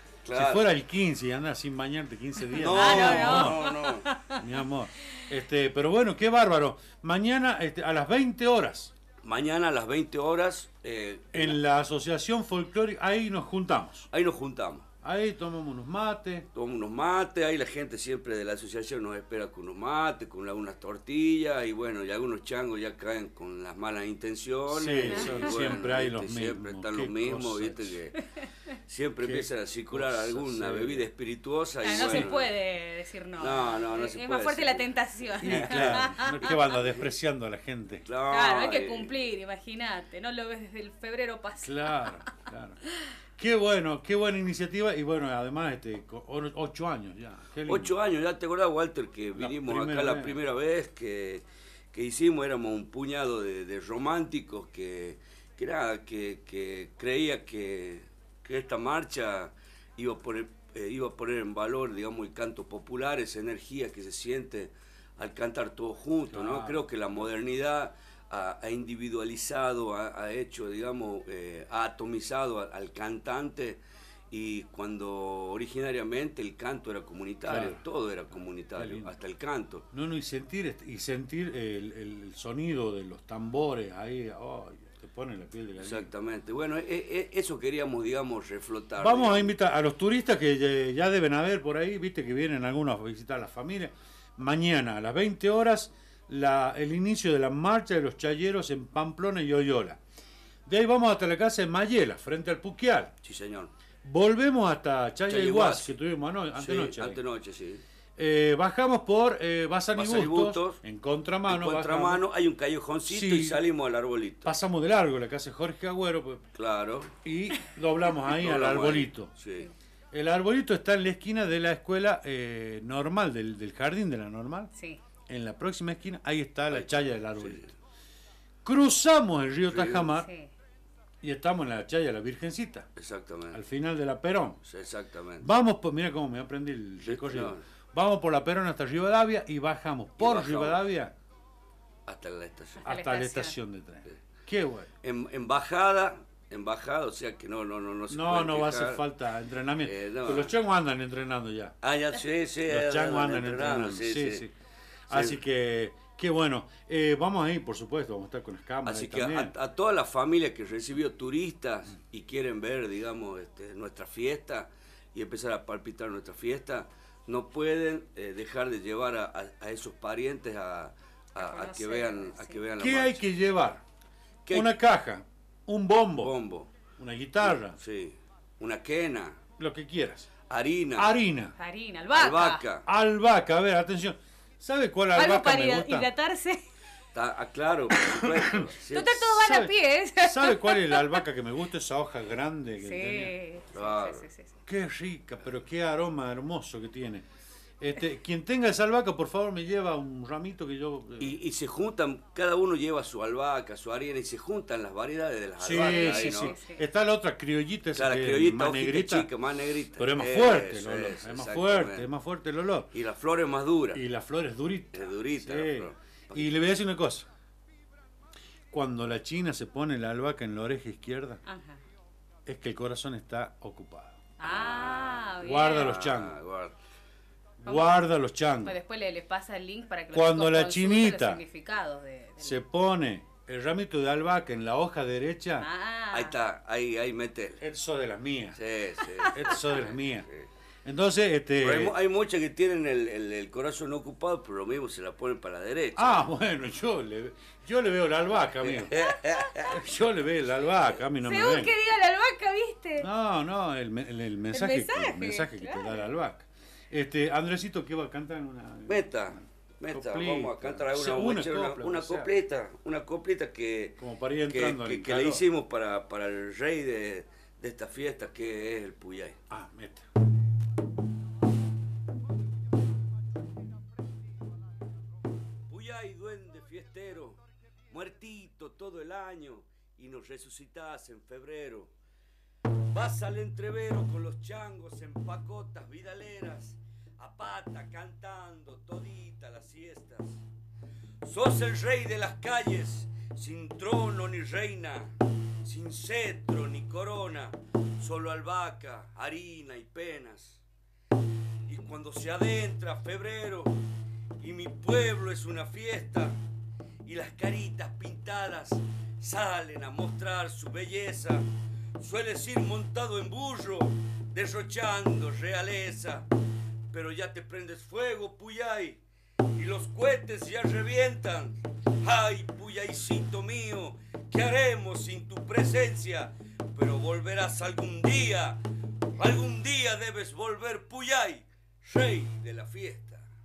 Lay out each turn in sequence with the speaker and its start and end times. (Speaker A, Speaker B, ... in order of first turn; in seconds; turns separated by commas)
Speaker A: 0.2-0.6, Speaker B: 0.3-3.7, Speaker C: 2.6-4.4, Speaker A: 2.6-4.1, Speaker B: 4.3-8.9, Speaker A: 9.2-11.6, Speaker B: 11.3-14.1, Speaker A: 14.1-14.8, Speaker B: 15.0-16.5, Speaker A: 16.5-28.1, Speaker B: 24.7-28.0, Speaker C: 25.1-25.8, Speaker C: 28.2-28.5, Speaker A: 28.9-32.5, Speaker B: 29.2-31.1, Speaker C: 31.8-36.8, Speaker B: 31.9-32.3, Speaker A: 33.4-34.9, Speaker B: 35.4-38.0, Speaker A: 35.4-37.1, Speaker A: 38.0-39.1, Speaker C: 38.3-42.2, Speaker B: 41.6-42.8, Speaker B: 43.4-47.9, Speaker A: 47.6-79.8, Speaker B: 49.4-50.4, Speaker B: 66.3-66.9, Speaker B: 77.5-77.8, Speaker B: 78.7-79.1, Speaker B: 79.9-86.1, Speaker A: 85.8-89.5, Speaker B: 89.0-100.0, Speaker B: 100.7-103.1, Speaker A: 103.2-103.7, Speaker B: 104.0-107.2, Speaker A: 105.3-105.9, Speaker A: 106.5-107.8, Speaker B: 108.2-112.2, Speaker A: 109.9-110.8, Speaker A: 111.5-114.5, Speaker B: 113.1-113.6, Speaker B: 114.4-116.4, Speaker A: 116.5-117.1, Speaker B: 117.2-119.3, Speaker A: 118.2-119.7, Speaker B: 120.1-124.7, Speaker B: 125.3-127.6, Speaker A: 126.7-127.7, Speaker B: 128.6-130.3, Speaker A: 129.7-130.1, Speaker C: 130.1-130.5, Speaker B: 131.2-132.9, Speaker A: 132.9-133.6, Speaker B: 133.5-134.6, Speaker A: 134.6-135.5, Speaker B: 135.4-141.1, Speaker A: 137.0-137.6, Speaker A: 140.2-140.8, Speaker A: 142.1-142.9, Speaker C: 142.8-143.6, Speaker B: 142.8-144.9, Speaker A: 145.0-149.0, Speaker B: 148.1-151.7, Speaker A: 149.8-150.6, Speaker A: 151.8-154.4, Speaker B: 152.7-154.5, Speaker B: 155.1-159.5, Speaker A: 155.1-155.4, Speaker A: 158.8-173.2, Speaker C: 171.4-172.6, Speaker B: 172.8-173.8, Speaker A: 174.4-174.7, Speaker B: 174.5-176.3, Speaker A: 176.2-176.7, Speaker B: 177.0-177.8, Speaker A: 177.4-179.4, Speaker B: 179.6-180.3, Speaker A: 180.5-181.1, Speaker B: 180.9-181.5, Speaker C: 181.6-182.6, Speaker A: 182.1-182.8, Speaker B: 182.8-186.1, Speaker C: 185.1-186.6, Speaker A: 187.1-189.4, Speaker B: 188.0-188.7, Speaker C: 188.9-191.2, Speaker B: 189.3-193.3, Speaker C: 192.8-194.5, Speaker A: 193.7-194.3, Speaker B: 194.7-197.2, Speaker B: 197.8-201.4, Speaker A: 201.2-206.6, Speaker B: 205.6-209.3, Speaker C: 205.7-206.8, Speaker A: 207.9-212.1, Speaker B: 209.9-212.9, Speaker A: 212.9-214.0, Speaker B: 213.9-217.3, Speaker A: 214.9-216.5, Speaker B: 218.7-221.4, Speaker C: 221.4-221.8, Speaker B: 222.4-224.2, Speaker C: 224.4-226.0, Speaker A: 224.4-226.7, Speaker B: 225.4-226.3, Speaker B: 227.6-228.8, Speaker C: 227.7-228.0, Speaker C: 228.6-232.6, Speaker B: 230.1-231.4, Speaker B: 232.4-235.7, Speaker C: 235.6-236.3, Speaker A: 236.1-237.6, Speaker B: 237.6-238.6, Speaker A: 238.5-240.5, Speaker B: 239.3-240.3, Speaker B: 240.8-241.9, Speaker A: 241.6-246.3, Speaker B: 245.9-249.0, Speaker A: 248.6-249.8, Speaker C: 248.9-249.5, Speaker B: 249.5-251.7, Speaker C: 251.2-253.1, Speaker B: 253.0-262.3, Speaker C: 254.5-256.1, Speaker A: 258.9-269.4, Speaker B: 264.0-265.4, Speaker B: 269.5-270.1, Speaker A: 275.7-281.9, Speaker A: 282.9-290.4, Speaker A: 291.2-300.6, Speaker A: 301.7-303.8, Speaker A: 304.4-306.4, Speaker A: 307.0-316.3, Speaker A: 316.9-333.2